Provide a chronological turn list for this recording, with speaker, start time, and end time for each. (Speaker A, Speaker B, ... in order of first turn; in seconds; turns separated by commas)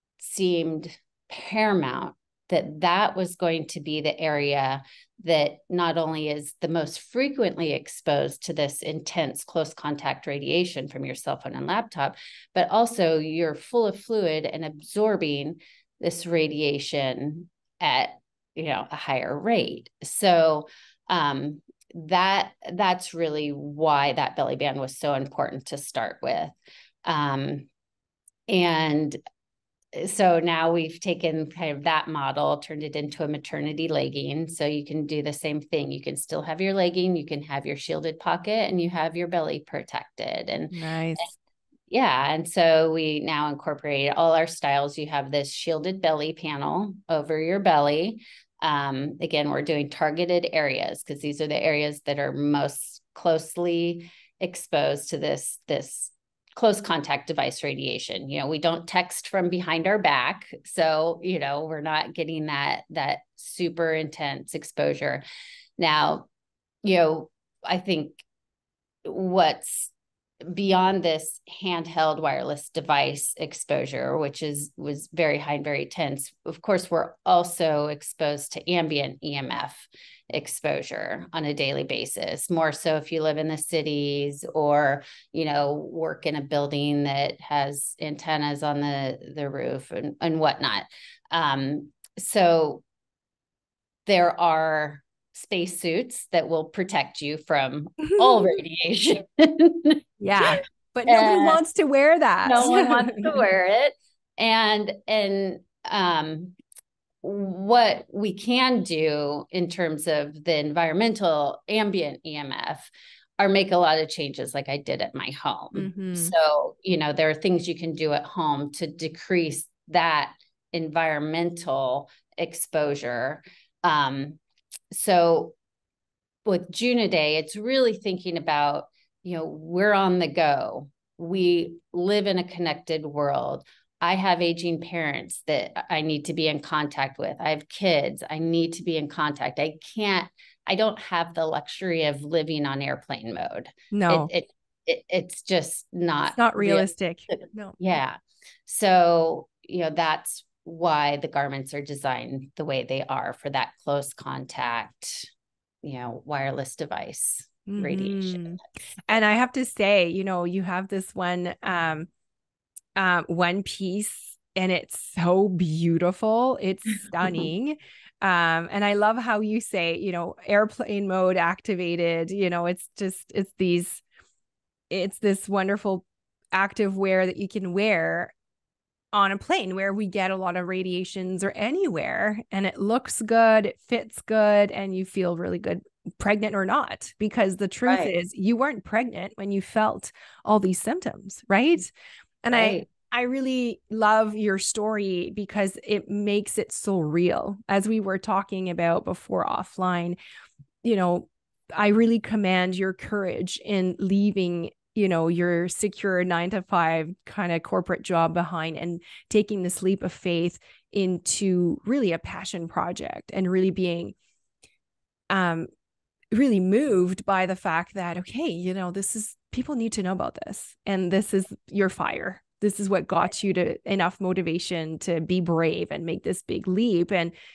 Speaker A: 0.2-27.7, Speaker A: 28.5-29.2, Speaker A: 29.9-41.3, Speaker B: 40.7-41.3, Speaker A: 41.9-65.2, Speaker A: 65.8-66.3, Speaker A: 66.8-68.2, Speaker A: 69.0-69.9, Speaker A: 70.5-92.8, Speaker A: 94.0-100.5, Speaker B: 98.0-98.5, Speaker B: 100.2-103.3, Speaker A: 101.1-101.6, Speaker A: 102.4-106.6, Speaker A: 107.2-124.4, Speaker B: 115.7-116.3, Speaker A: 124.9-125.5, Speaker A: 126.4-155.3, Speaker B: 143.9-144.3, Speaker B: 146.3-147.8, Speaker A: 155.8-158.6, Speaker B: 157.7-162.1, Speaker B: 162.9-174.0, Speaker B: 174.9-178.3, Speaker B: 179.1-191.9, Speaker A: 187.8-188.1, Speaker B: 192.4-200.2, Speaker A: 192.5-192.8, Speaker B: 200.8-214.1, Speaker B: 215.3-215.7, Speaker B: 216.3-227.3